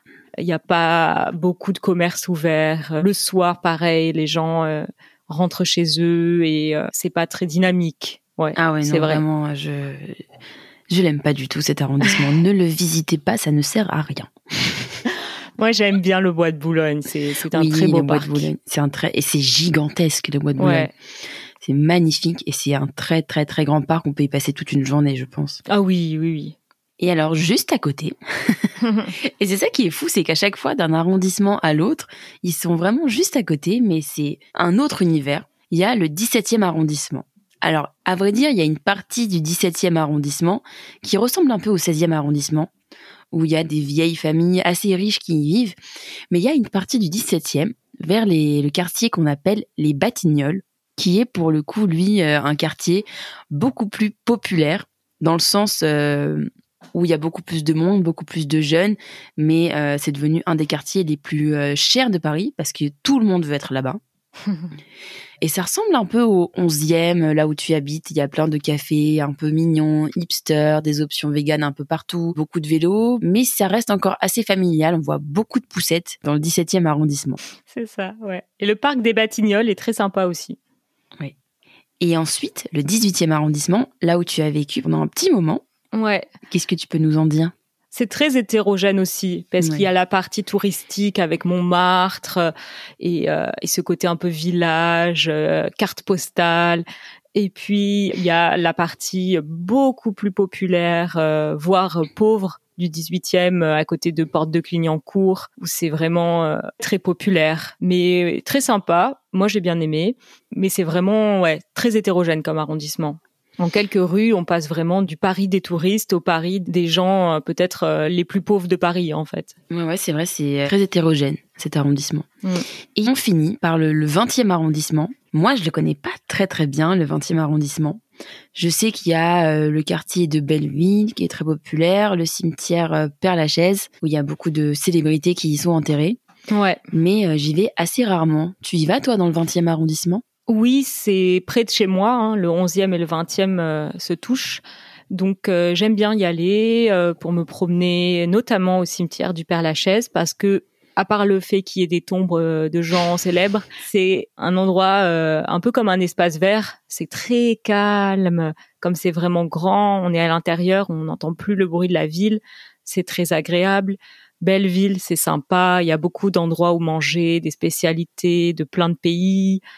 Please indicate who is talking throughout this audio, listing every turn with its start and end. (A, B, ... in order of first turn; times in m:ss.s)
0:00.4-0:09.2 A
0:08.6-0:10.2 B
0:10.9-0:15.0 B
0:15.6-0:18.5 A
0:17.5-0:20.9 B
0:20.6-0:20.9 A
0:21.6-0:25.6 B
0:25.7-0:26.5 A
0:27.0-0:42.7 B
0:28.8-0:29.1 A
0:43.3-0:45.8 B
0:46.3-1:04.0 B
1:05.4-1:17.4 B
1:17.7-1:20.6 A
1:22.0-1:25.6 B
1:25.9-1:26.3 A
1:26.5-1:27.5 B
1:27.9-1:59.5 A
1:29.6-1:29.8 B
1:59.7-2:02.3 B
2:02.9-2:08.0 B
2:08.5-2:16.2 B
2:16.5-2:16.8 A
2:16.9-2:20.2 B
2:20.5-2:49.6 A